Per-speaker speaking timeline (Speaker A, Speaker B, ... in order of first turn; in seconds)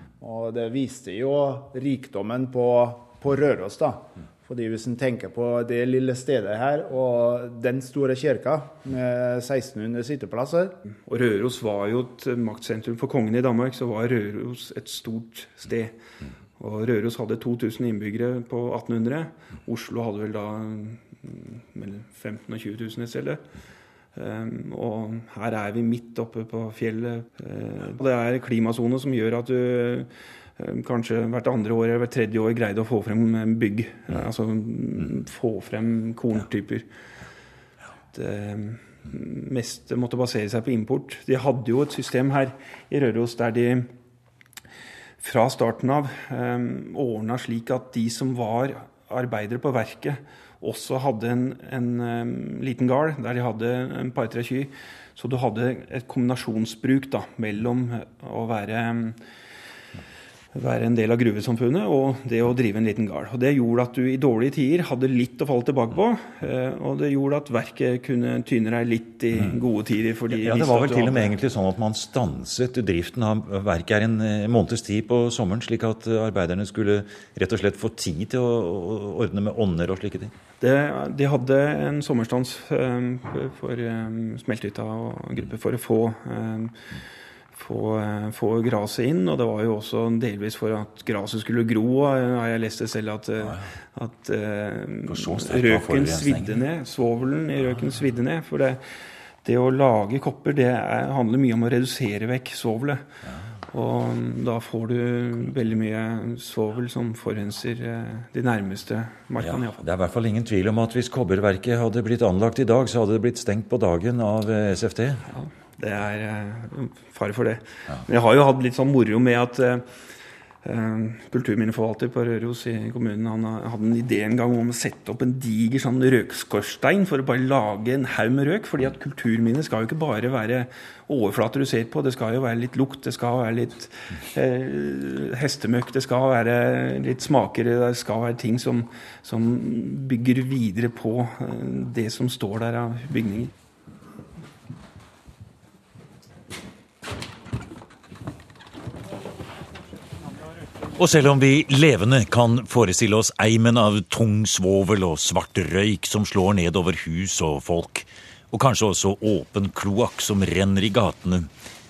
Speaker A: 0.2-10.8
Speaker B: 11.1-15.9, 16.6-23.4, 24.1-36.9, 38.1-43.9, 45.2-59.2, 60.5-71.4, 80.6-86.9, 87.5-98.8, 99.4-103.0, 103.7-109.8, 115.3-119.9, 120.6-143.5
Speaker C: 70.3-80.3, 95.1-96.5, 109.4-115.2, 151.0-161.5